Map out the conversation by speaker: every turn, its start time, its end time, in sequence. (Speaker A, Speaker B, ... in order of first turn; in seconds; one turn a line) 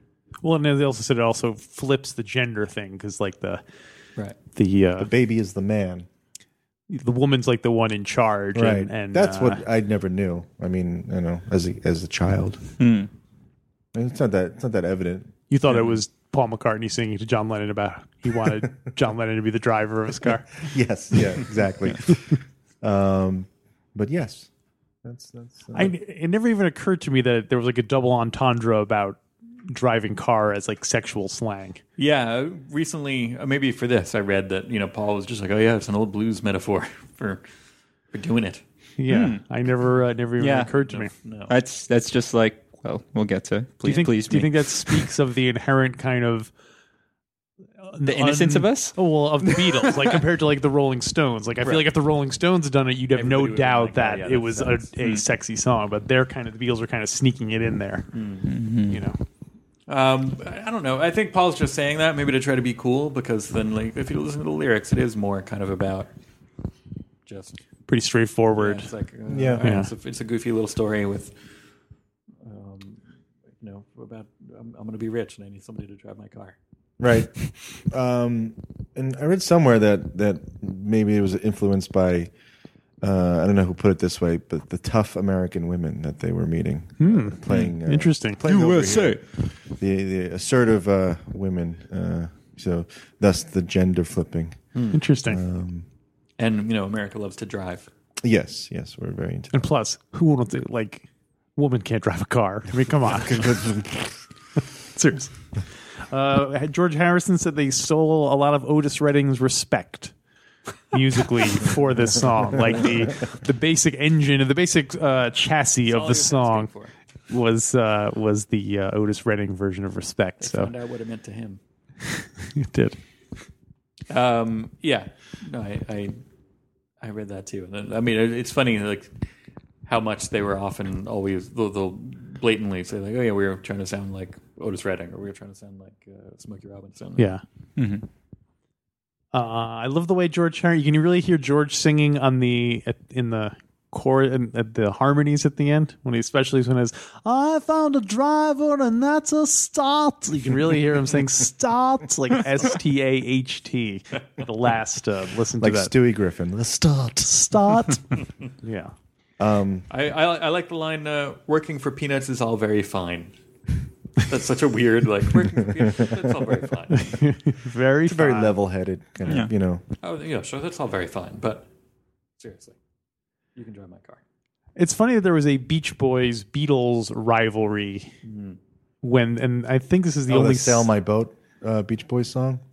Speaker A: 0.4-3.6
Speaker A: 4.5-5.1
Speaker B: 5.0-6.1
Speaker A: 6.9-9.6
Speaker B: 8.5-12.6
Speaker C: 12.8-13.1
Speaker B: 13.9-15.3
Speaker A: 15.5-20.7
Speaker D: 15.7-15.9
Speaker B: 20.6-24.5
Speaker B: 25.0-25.9
Speaker A: 25.7-31.8
Speaker D: 32.0-37.4
Speaker D: 38.1-38.6
Speaker A: 39.0-41.1
Speaker C: 39.1-39.4
Speaker C: 40.4-40.7
Speaker D: 40.9-41.5
Speaker C: 41.5-45.1
Speaker A: 43.8-46.5
Speaker A: 47.8-58.2
Speaker C: 48.0-50.0
Speaker D: 51.6-51.9
Speaker D: 53.1-54.9
Speaker D: 58.1-58.5
Speaker C: 58.5-59.0
Speaker A: 58.8-59.2
Speaker D: 59.9-66.1
Speaker D: 67.2-67.6
Speaker A: 67.9-68.9
Speaker D: 68.5-71.3
Speaker B: 69.3-69.6
Speaker A: 69.6-69.9
Speaker D: 72.4-73.0
Speaker D: 73.6-76.5
Speaker B: 77.0-82.3
Speaker B: 83.0-94.6
Speaker A: 87.0-88.4
Speaker C: 87.5-87.8
Speaker C: 88.4-89.2
Speaker D: 94.7-95.0
Speaker A: 94.9-95.4
Speaker B: 95.2-95.8
Speaker D: 96.4-97.9
Speaker B: 98.2-99.5
Speaker A: 99.5-103.8
Speaker B: 103.3-104.1
Speaker A: 104.8-105.3
Speaker A: 106.1-110.1
Speaker A: 110.9-116.7
Speaker D: 115.9-116.9
Speaker A: 117.3-120.7
Speaker D: 120.4-121.6
Speaker A: 122.5-123.0
Speaker D: 124.1-126.2
Speaker D: 127.0-129.1
Speaker D: 129.8-137.3
Speaker A: 137.2-137.4
Speaker C: 137.8-138.0
Speaker A: 139.3-155.9
Speaker B: 155.6-157.6
Speaker A: 157.5-158.0
Speaker A: 158.6-158.9
Speaker B: 159.4-159.9
Speaker D: 159.9-163.3
Speaker D: 164.1-167.2
Speaker A: 167.0-168.6
Speaker B: 168.0-169.8
Speaker C: 169.2-169.5
Speaker D: 170.0-171.7
Speaker D: 172.4-172.8
Speaker D: 173.6-174.2
Speaker A: 174.8-178.1
Speaker D: 178.2-178.6
Speaker A: 179.0-180.9
Speaker B: 180.3-182.6